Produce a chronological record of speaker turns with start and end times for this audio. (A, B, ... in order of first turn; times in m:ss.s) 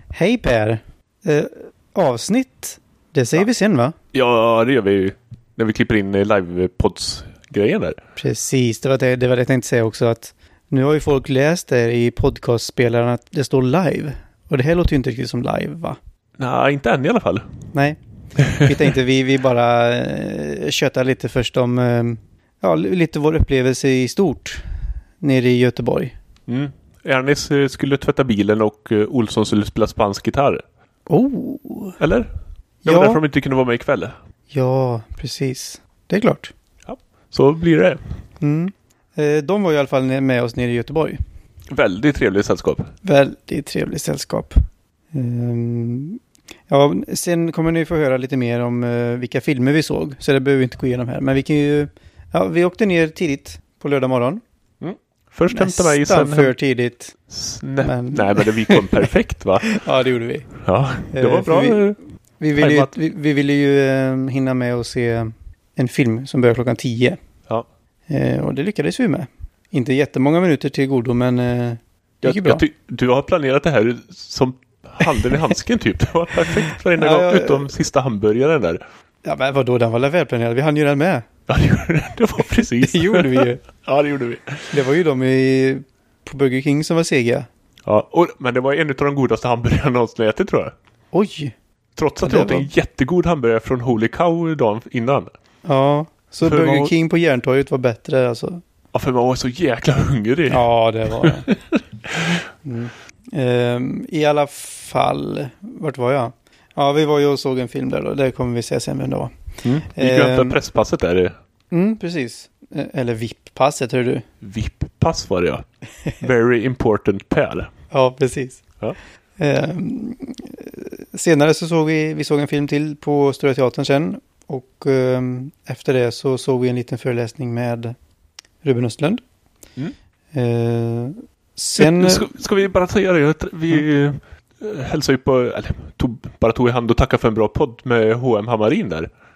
0:00.1-0:04.0 A
0:04.1-0:08.0 B
0:08.2-0:16.0 A
0:16.4-0:17.4 B
0:17.7-0:18.0 A
0:18.5-0:24.6 A
0:25.2-0:26.1 A
0:26.5-0:30.6 B
0:31.1-0:32.0 A
0:32.0-0:32.3 B
0:32.8-0:33.2 A
0:32.8-0:34.1 B
0:34.5-0:36.5 A
0:36.9-0:38.0 B
0:38.4-0:41.2 A
0:41.7-0:42.9 B
0:43.0-0:44.6 A
0:45.1-0:54.4 A
0:54.8-0:56.5 B
0:55.5-0:57.2 A
0:57.3-0:59.8 B
0:57.8-0:58.9 A
0:59.7-1:00.5 A
1:00.6-1:02.0 B
1:01.1-1:07.2 A
1:02.6-1:02.9 B
1:08.1-1:12.6 A
1:12.2-1:18.8 B
1:17.0-1:17.7 A
1:19.2-1:21.3 A
1:21.5-1:24.7 B
1:22.6-1:23.6 A
1:24.7-1:27.5 A
1:27.9-1:30.7 B
1:31.1-1:31.5 A
1:32.0-1:35.3 B
1:32.2-1:32.7 A
1:35.6-1:38.6 A
1:36.4-1:36.9 B
1:38.9-1:42.2 B
1:40.5-1:41.5 A
1:42.6-1:49.3 A
1:49.6-1:51.3 B
1:50.0-1:50.6 A
1:51.7-1:54.2 A
1:54.4-1:55.6 B
1:56.2-1:57.7 B
1:57.9-1:58.6 A
1:59.4-2:08.0 A
2:08.6-2:09.2 A
2:10.3-2:12.2 A
2:11.8-2:19.1 B